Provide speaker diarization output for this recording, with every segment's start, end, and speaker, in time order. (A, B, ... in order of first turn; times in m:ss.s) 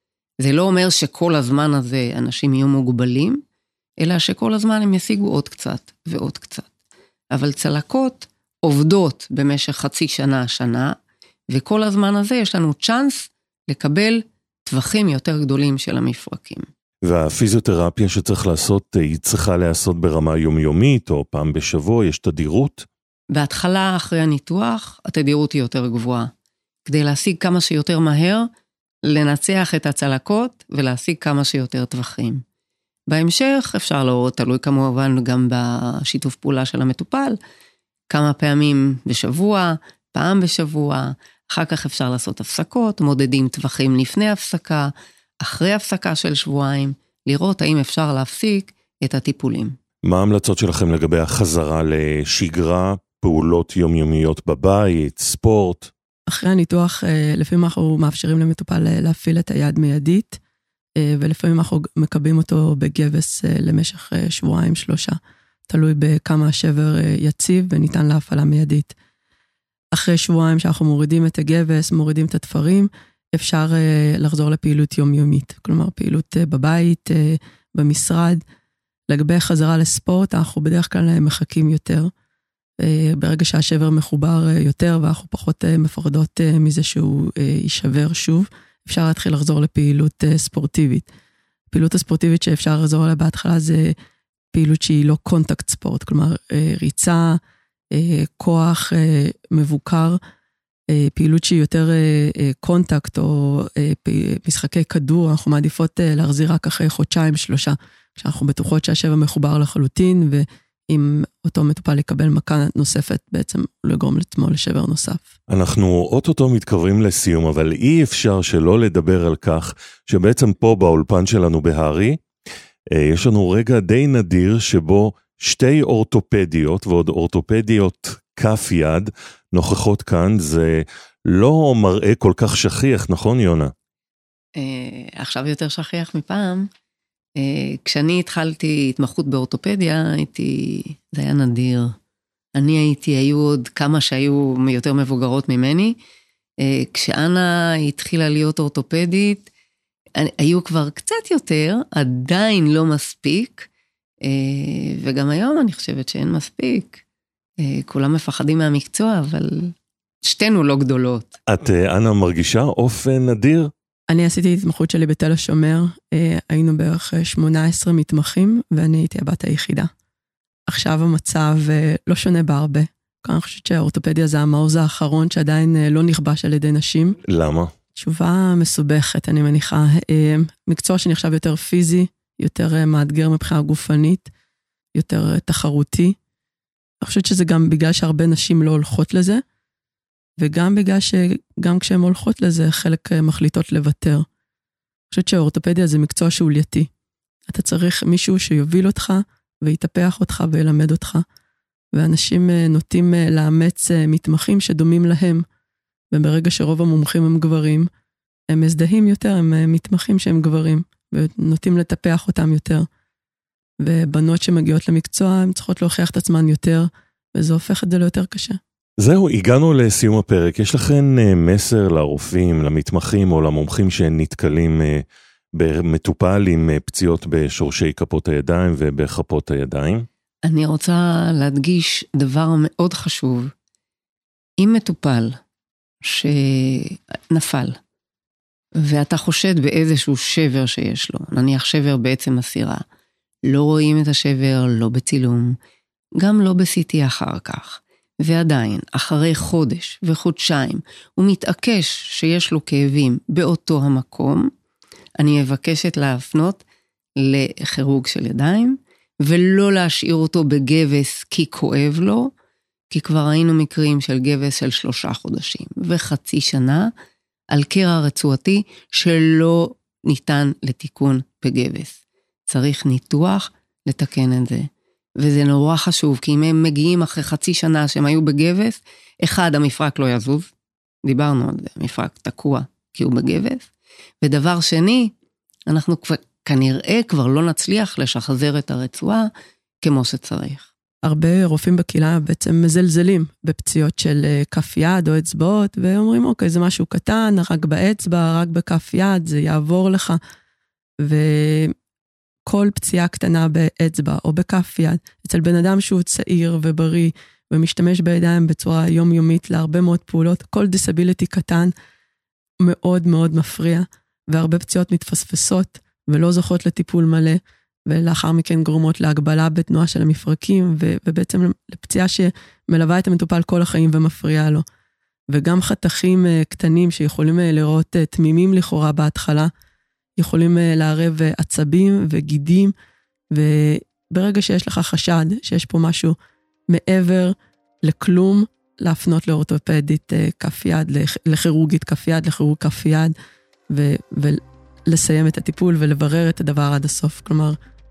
0:00.4-0:03.4 A
0:04.0-0:06.7 A
0:07.3-0:10.9 A
0:11.5-0:16.6 A
0:17.0-0:22.9 B
0:23.3-0:26.3 A
0:26.8-0:28.5 A
0:29.0-0:32.4 A
0:33.1-0:37.4 A
0:38.1-0:49.8 A
0:50.0-0:55.9 B
0:56.3-1:00.4 C
1:01.0-1:08.9 C
1:09.9-1:18.4 C
1:19.1-1:22.1 C
1:22.8-1:31.1 C
1:31.7-1:33.9 C
1:34.5-1:37.4 C
1:37.9-1:40.2 C
1:40.9-1:55.3 C
1:55.5-2:02.2 B
2:02.9-2:13.7 B
2:14.6-2:16.7 A
2:17.4-2:21.9 A
2:22.6-2:26.0 A
2:26.6-2:29.5 A
2:30.1-2:33.7 A
2:34.2-2:37.0 A
2:37.6-2:39.7 A
2:40.2-2:41.4 A
2:41.5-2:43.7 B
2:44.1-2:49.9 C
2:50.7-2:57.2 C
2:57.3-2:57.7 B
2:57.9-3:04.3 C
3:04.9-3:06.2 C
3:07.0-3:09.4 C
3:10.4-3:14.2 C
3:15.1-3:16.9 C
3:17.5-3:21.2 C
3:21.9-3:25.4 C
3:26.1-3:27.9 C
3:28.5-3:32.9 C
3:33.8-3:38.6 C
3:39.0-3:45.0 B
3:45.5-3:50.0 B
3:50.4-3:53.5 A
3:54.6-3:55.3 A
3:56.0-3:57.8 A
3:58.8-4:02.8 A
4:03.5-4:05.6 A
4:06.2-4:14.5 A
4:15.2-4:16.6 A
4:17.2-4:22.3 A
4:22.9-4:26.9 A
4:27.5-4:40.5 A
4:41.0-4:43.7 A
4:44.2-4:45.1 A
4:45.7-4:49.3 A
4:49.8-4:50.7 A
4:51.0-5:00.2 C
5:01.0-5:01.7 C
5:02.5-5:11.7 C
5:12.6-5:24.6 C
5:25.3-5:29.5 C
5:30.2-5:32.7 C
5:33.3-5:36.2 C
5:36.7-5:43.1 C
5:43.7-5:47.6 C